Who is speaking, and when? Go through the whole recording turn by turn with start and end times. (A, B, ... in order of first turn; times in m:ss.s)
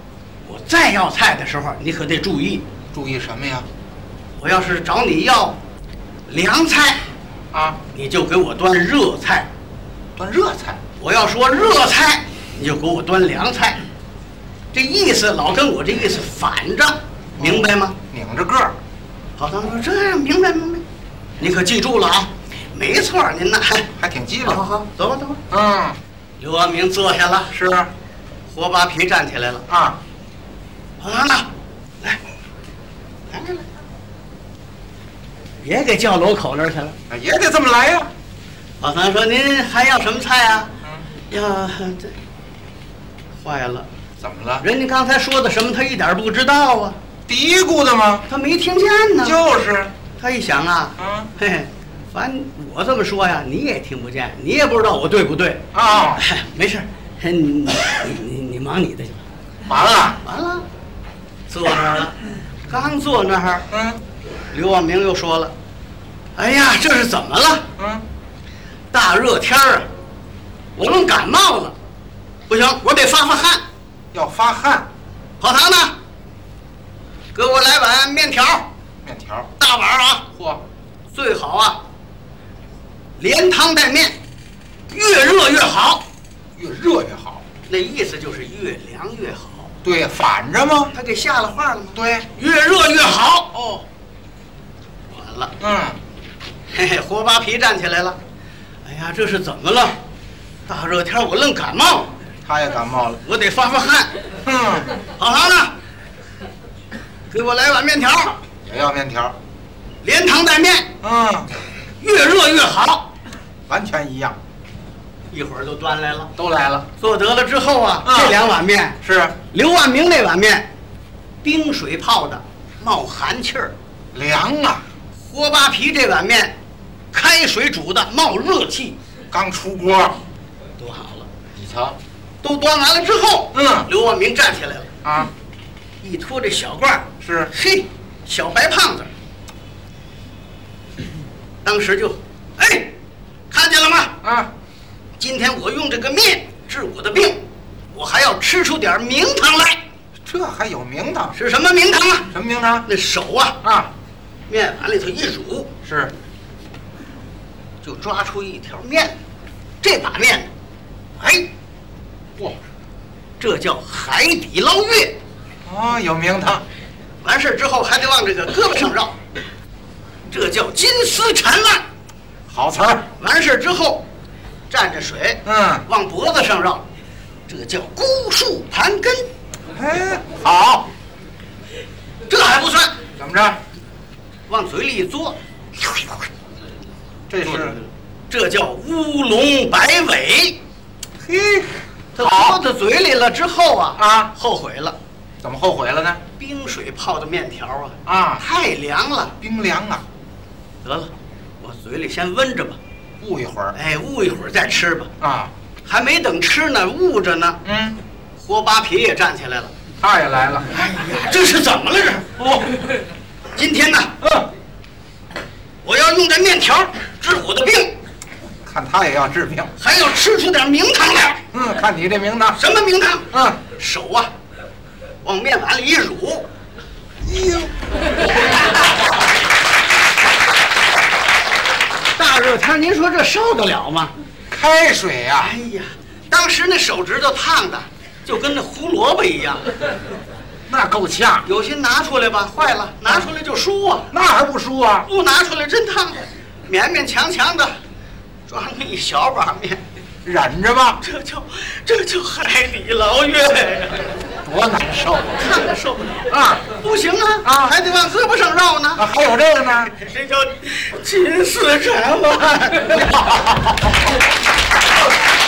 0:00.4-0:02.6 A
0:02.9-0:03.7 B
0:04.4-0:05.6 A
0:06.3-0:07.0 A
0:07.5-0:07.8 B
0:07.9-0:09.5 A
0:10.2-0:10.8 B
0:11.0-0:13.8 A
0:14.7-0:18.0 A
0:17.4-0:18.7 B
0:19.4-0:20.8 A
0:21.4-0:23.9 A
0:24.0-0:24.6 B
0:24.4-0:25.4 A
0:25.5-0:26.0 B
0:26.4-0:27.5 A
0:27.5-0:27.9 B
0:28.5-0:29.6 A
0:29.7-0:30.0 B
0:31.0-0:31.5 A
0:33.3-0:33.6 A
0:35.6-0:37.0 A
0:37.1-0:38.1 B
0:38.8-0:40.7 A
0:41.3-0:42.1 A
0:43.4-0:43.9 A
0:44.2-0:44.6 B
0:44.6-0:47.0 A
0:47.3-0:48.2 B
0:48.3-0:49.4 A
0:49.2-0:49.9 B
0:50.2-0:59.2 A
0:51.0-0:51.3 B
0:55.7-0:56.2 B
0:59.7-1:00.2 B
1:00.2-1:00.6 A
1:01.5-1:03.6 A
1:03.7-1:04.0 B
1:04.5-1:05.5 A
1:06.4-1:07.6 A
1:07.8-1:08.0 B
1:08.9-1:09.9 A
1:10.8-1:11.7 A
1:12.5-1:13.6 A
1:14.1-1:14.9 B
1:15.4-1:15.9 A
1:17.3-1:18.7 A
1:19.0-1:19.5 B
1:19.6-1:20.3 A
1:20.4-1:20.6 B
1:21.1-1:21.8 A
1:23.2-1:24.2 A
1:24.9-1:26.0 A
1:26.6-1:27.4 B
1:27.7-1:29.7 A
1:29.8-1:30.9 B
1:30.9-1:33.5 A
1:32.0-1:32.3 B
1:33.5-1:33.8 B
1:35.1-1:35.5 A
1:35.6-1:36.0 B
1:36.7-1:38.2 A
1:38.8-1:40.0 A
1:40.7-1:42.1 A
1:42.4-1:43.2 B
1:43.2-1:44.1 A
1:44.4-1:44.9 B
1:45.2-1:45.7 A
1:47.3-1:48.4 A
1:48.6-1:49.3 B
1:50.0-1:50.9 A
1:51.0-1:51.5 B
1:52.0-1:53.1 A
1:53.7-1:54.4 B
1:55.3-1:56.3 A
1:56.4-1:56.9 B
1:57.0-2:00.6 A
1:58.0-1:58.4 B
1:59.0-1:59.3 B
2:01.4-2:03.7 A
2:04.1-2:04.8 B
2:05.2-2:06.5 A
2:07.1-2:09.0 A
2:09.3-2:10.2 B
2:10.8-2:11.3 A
2:11.6-2:12.0 B
2:12.4-2:14.9 A
2:13.5-2:13.9 B
2:15.0-2:15.3 B
2:16.0-2:19.1 A
2:17.2-2:17.5 B
2:21.6-2:22.9 A
2:23.5-2:24.1 A
2:24.2-2:24.5 B
2:25.2-2:27.4 A
2:27.9-2:29.8 A
2:30.2-2:31.3 B
2:31.3-2:32.3 A
2:32.3-2:32.9 B
2:32.8-2:33.6 A
2:33.6-2:33.9 B
2:34.5-2:35.7 A
2:35.8-2:36.1 B
2:37.8-2:39.2 A
2:39.8-2:40.5 A
2:41.2-2:41.5 A
2:43.4-2:45.2 A
2:45.6-2:46.6 B
2:47.2-2:49.2 A
2:50.3-2:51.8 A
2:52.5-2:53.0 B
2:53.2-2:54.0 A
2:54.7-2:56.8 A
2:55.4-2:55.8 B
2:57.5-2:59.3 A
2:59.7-3:00.9 B
3:02.3-3:03.0 A
3:03.2-3:03.6 B
3:04.5-3:05.4 A
3:07.3-3:07.7 B
3:07.4-3:10.6 A
3:11.2-3:12.6 B
3:12.2-3:14.9 A
3:14.0-3:14.3 B
3:15.4-3:16.2 B
3:16.4-3:19.3 A
3:18.0-3:18.4 B
3:19.4-3:20.0 B
3:20.8-3:22.8 A
3:23.2-3:23.7 B
3:23.7-3:25.1 A
3:25.2-3:25.5 B
3:25.8-3:27.6 A
3:27.6-3:28.0 B
3:28.4-3:29.7 A
3:30.0-3:30.7 B
3:30.7-3:32.4 A
3:32.4-3:32.8 B
3:33.5-3:34.1 A
3:34.2-3:34.5 B
3:35.8-3:37.9 A
3:38.6-3:39.7 B
3:39.8-3:41.4 A
3:41.5-3:42.6 B
3:42.5-3:44.3 A
3:43.3-3:43.6 B
3:45.2-3:46.4 A
3:47.2-3:47.7 B
3:52.2-3:54.1 A
3:54.5-3:55.5 B
3:55.4-3:59.6 A
4:00.7-4:01.4 B
4:01.4-4:04.1 A
4:04.1-4:05.1 B
4:05.0-4:07.7 A
4:08.5-4:09.8 A
4:10.2-4:11.0 B
4:11.0-4:14.1 A
4:14.4-4:15.5 B
4:15.4-4:19.0 A
4:16.3-4:16.6 B
4:17.4-4:17.7 B
4:19.0-4:19.9 B
4:19.8-4:23.2 A
4:22.8-4:23.9 B